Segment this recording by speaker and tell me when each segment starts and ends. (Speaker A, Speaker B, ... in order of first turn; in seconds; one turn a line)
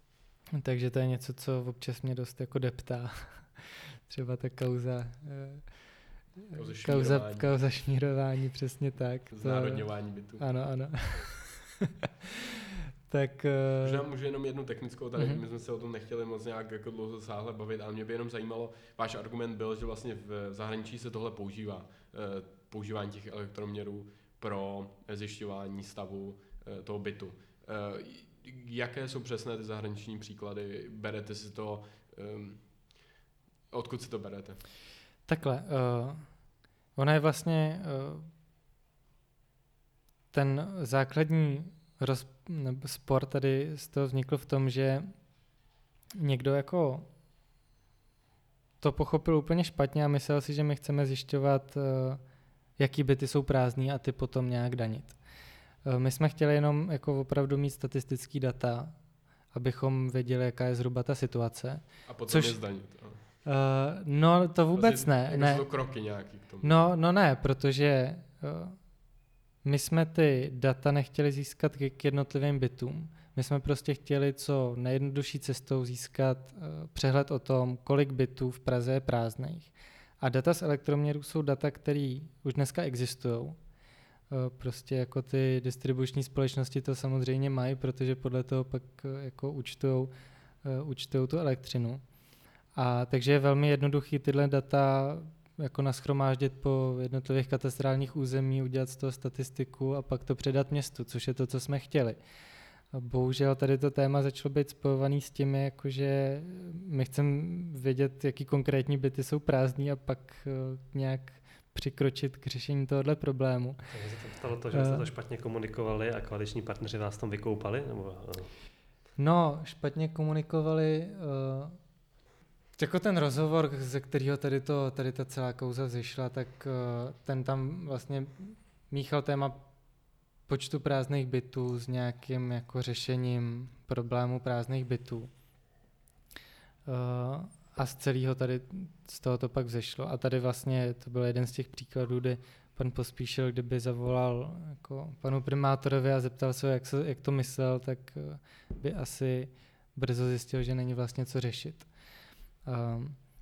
Speaker A: 0.5-5.7
Speaker A: 6.5-14.1
Speaker B: 6.5-7.5
Speaker B: 9.3-10.5
Speaker B: 13.8-33.1
Speaker A: 15.2-15.4
Speaker B: 33.7-34.6
Speaker A: 35.3-36.3
Speaker A: 37.0-38.3
Speaker A: 40.3-45.1
Speaker A: 46.2-47.1
Speaker A: 48.8-52.2
Speaker A: 52.8-55.2
Speaker A: 55.8-59.0
Speaker A: 59.5-62.6
Speaker B: 62.1-63.2
Speaker A: 63.4-65.7
Speaker B: 64.7-66.8
Speaker A: 66.6-68.8
Speaker A: 69.6-83.6
Speaker A: 84.3-90.1
Speaker A: 90.6-92.0
Speaker A: 92.8-102.2
Speaker A: 102.9-113.8
Speaker C: 113.9-118.5
Speaker A: 114.7-115.0
Speaker A: 119.2-121.8
Speaker A: 122.8-129.7
Speaker A: 130.5-135.3
Speaker A: 136.9-151.9
Speaker A: 152.7-153.2